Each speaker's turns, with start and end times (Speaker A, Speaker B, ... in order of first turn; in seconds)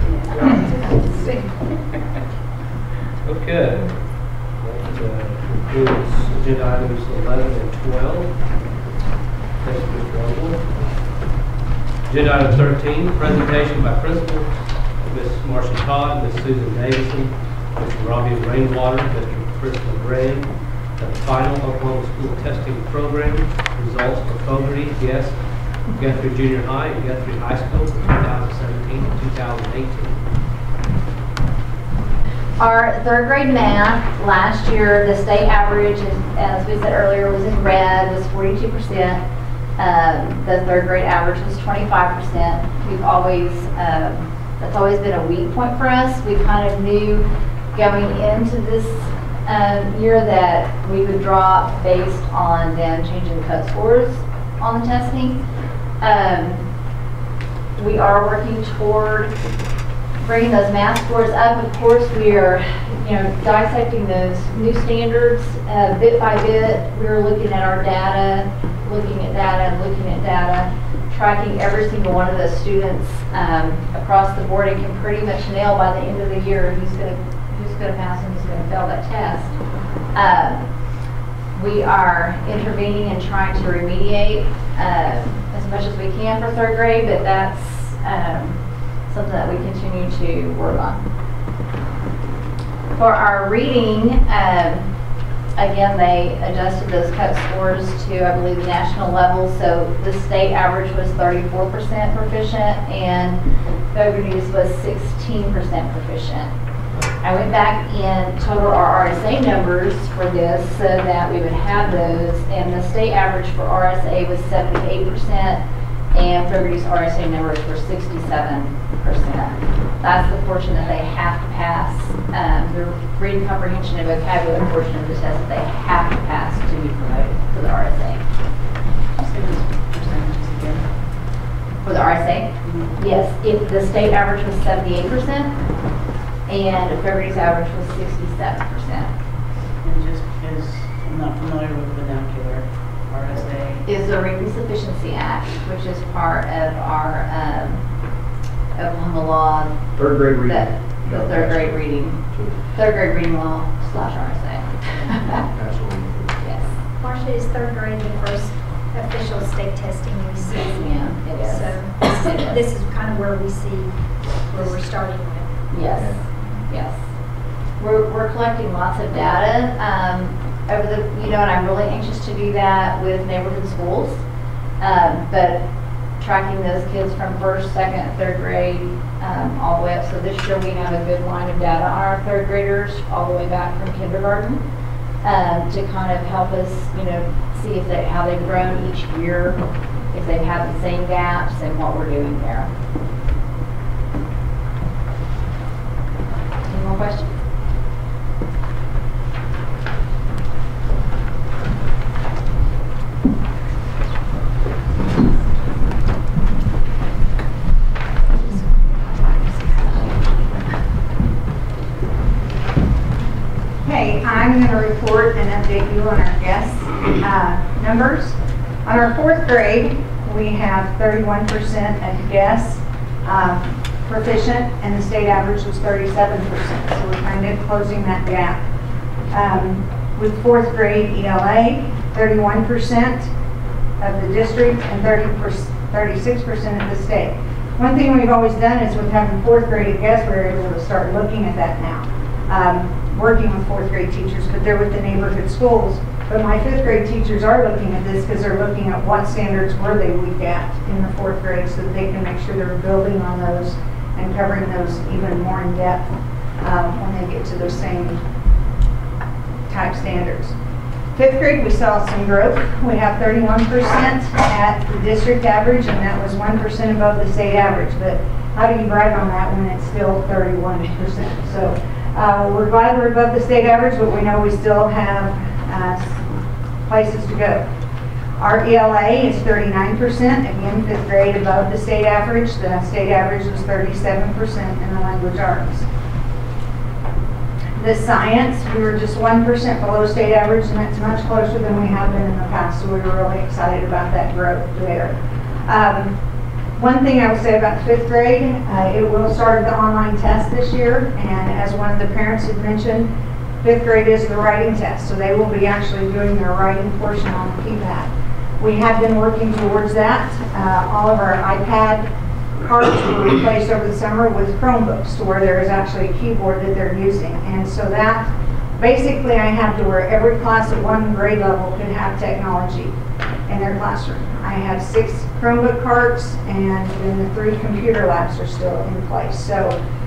Speaker A: 3.2-8.6, 9.6-11.2, 12.0-30.2
Speaker B: 32.6-39.2, 39.8-55.4, 56.0-56.6, 57.8-59.3, 60.2-79.5, 80.1-80.7, 81.5-91.0, 93.0-94.9, 95.5-103.4, 103.9-106.5, 107.2-115.6, 116.1-128.2, 131.8-135.5, 136.4-139.1, 143.8-147.8, 148.8-149.8, 150.4-152.2, 152.7-155.4, 156.4-156.8, 160.5-162.5, 164.5-164.8, 165.7-167.0, 167.8-174.2, 174.8-175.6, 176.2-184.6, 185.2-189.6, 190.1-192.7, 196.7-197.3
Speaker C: 129.2-131.2, 132.6-132.9, 139.8-143.8
Speaker D: 150.0-151.7, 152.3-152.6, 155.5-156.4
Speaker E: 157.0-165.6
Speaker F: 213.8-228.6, 229.3-233.3, 234.0-256.1, 256.6-258.2, 259.7-260.5, 261.1-276.2, 276.9-277.6, 278.4-285.9, 287.8-295.1, 295.7-296.1, 296.8-322.9, 323.5-329.8